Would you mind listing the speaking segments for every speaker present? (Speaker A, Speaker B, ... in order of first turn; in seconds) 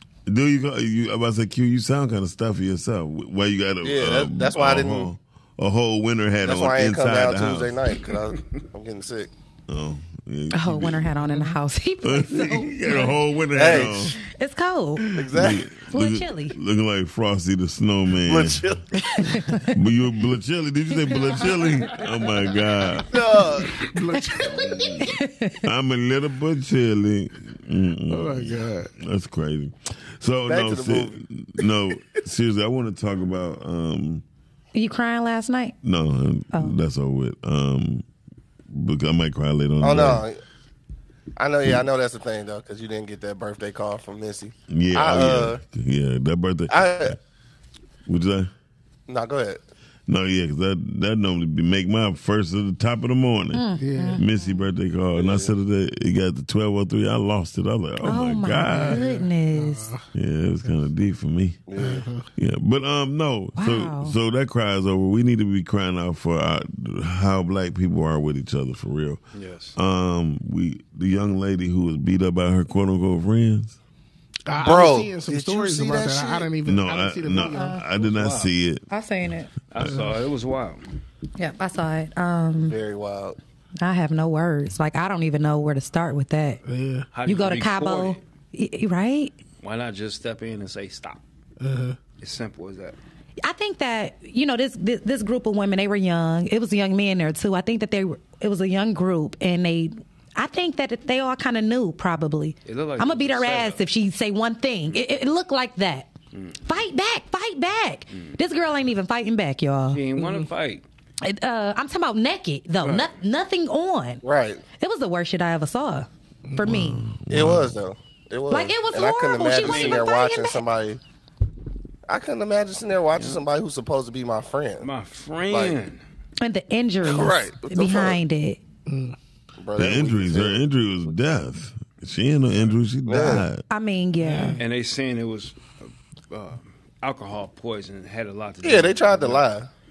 Speaker A: 0.3-7.9, 9.7-11.1, 12.0-14.2, 15.3-18.8, 19.6-23.1, 24.4-34.2, 35.8-38.0, 38.7-40.2, 44.7-47.2, 48.1-48.5, 50.1-59.0, 60.1-61.6, 62.4-69.2, 69.8-73.8, 76.6-78.8, 116.6-117.8, 129.8-133.6
Speaker B: 3.8-5.1, 6.4-9.3, 13.5-14.1, 15.1-15.6, 18.2-18.9, 23.1-23.8, 30.5-31.2, 39.8-40.4, 41.4-45.6, 46.7-47.2, 49.1-49.6, 55.1-55.5, 61.7-62.0, 74.6-76.5, 82.6-83.4, 114.2-114.6, 117.3-121.0, 122.1-124.9, 125.5-125.8, 127.0-128.2, 129.6-130.6, 133.1-133.5, 138.6-139.7
Speaker C: 10.5-13.1, 14.2-15.1, 15.9-16.6, 19.0-19.7, 21.0-21.5, 24.1-25.6, 34.7-35.8, 53.5-54.2, 58.0-59.9, 63.6-64.1, 77.5-77.8, 78.9-79.5, 81.4-82.8, 83.8-86.6, 87.2-89.3, 93.4-106.1, 106.6-110.5, 111.2-114.2, 114.8-117.0, 118.5-120.6, 126.4-128.6, 133.7-134.6
Speaker D: 23.7-25.0, 28.1-28.9, 53.8-54.2, 58.7-60.1, 61.8-62.2, 74.5-78.1, 86.6-87.1, 91.6-92.0, 128.9-129.2, 134.2-134.6
Speaker E: 69.3-69.8, 78.1-78.5, 79.7-80.8, 87.1-88.2, 89.6-91.2, 92.2-93.0, 102.7-103.8, 106.3-106.6, 109.9-110.8, 112.8-113.1, 119.6-120.1, 123.1-123.4, 124.8-126.0, 134.6-135.7, 136.3-139.5